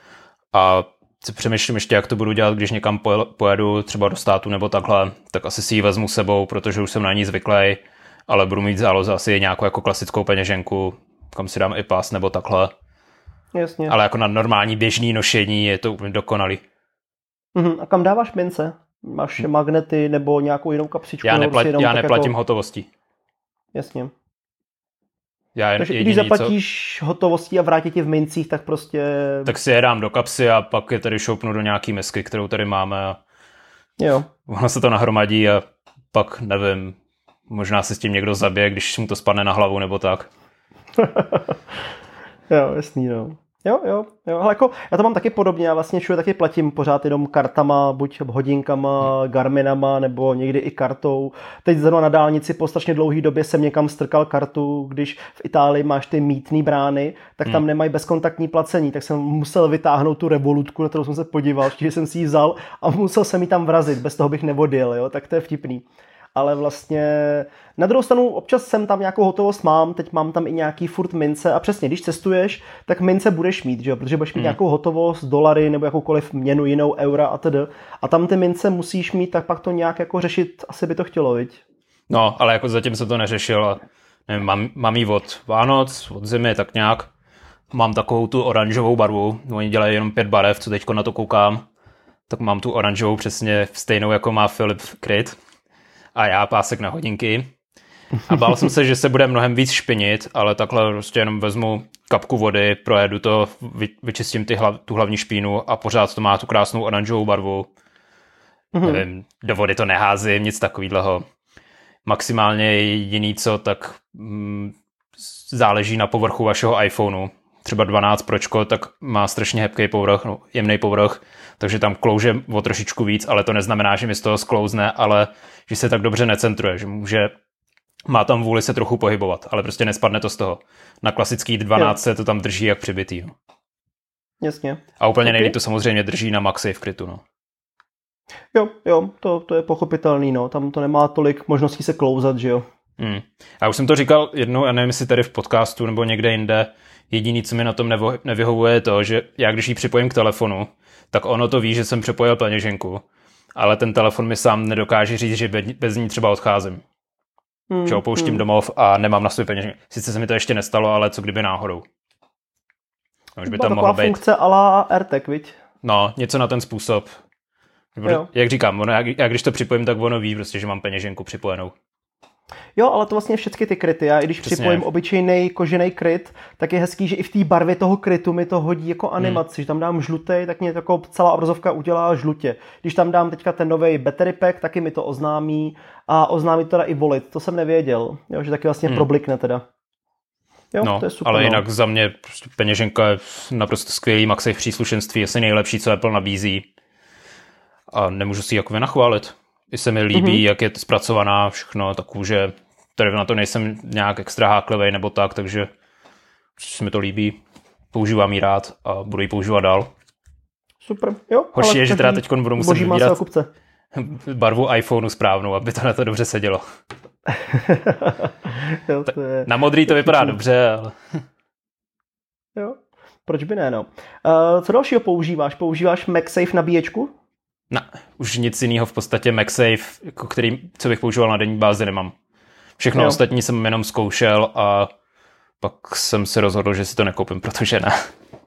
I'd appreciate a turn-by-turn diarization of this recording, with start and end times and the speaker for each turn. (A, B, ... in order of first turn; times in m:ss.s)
0:00.5-0:12.7 A
0:13.5-0:14.0 B
0:13.9-0:16.6 A
0:17.6-0:22.3 B
0:21.2-0:22.9 A
0:23.7-0:24.1 B
0:25.6-0:26.6 A
0:25.8-0:29.5 B
0:29.5-0:33.2 A
0:34.0-0:34.3 B
0:34.5-0:40.3 A
0:41.0-0:41.6 B
0:42.5-1:21.6 B
1:22.1-1:27.1 A
1:27.7-1:31.6 A
1:32.3-1:35.4 A
1:36.1-1:37.5 A
1:38.3-1:47.7 A
1:48.7-1:49.0 B
1:48.9-1:51.2 A
1:52.1-2:07.3 A
2:08.1-2:13.4 A
2:14.4-2:15.5 B
2:15.0-2:17.2 A
2:18.5-2:22.6 B
2:23.0-2:33.0 A
2:33.6-2:36.8 A
2:37.7-2:38.4 B
2:37.9-2:41.8 A
2:43.4-2:44.2 A
2:43.5-2:45.6 B
2:45.8-2:47.1 A
2:48.0-2:51.7 A
2:52.8-3:09.6 B
2:54.4-2:54.8 A
3:10.7-3:11.6 B
3:10.8-3:16.7 A
3:17.9-3:25.7 A
3:20.1-3:20.4 B
3:26.6-3:27.4 A
3:27.9-3:29.9 A
3:30.8-3:33.5 B
3:31.6-3:33.2 A
3:33.9-3:36.6 A
3:37.3-3:40.4 B
3:39.0-3:41.0 A
3:42.6-3:47.1 B
3:47.7-3:52.1 A
3:52.8-3:54.9 A
3:55.6-3:58.0 A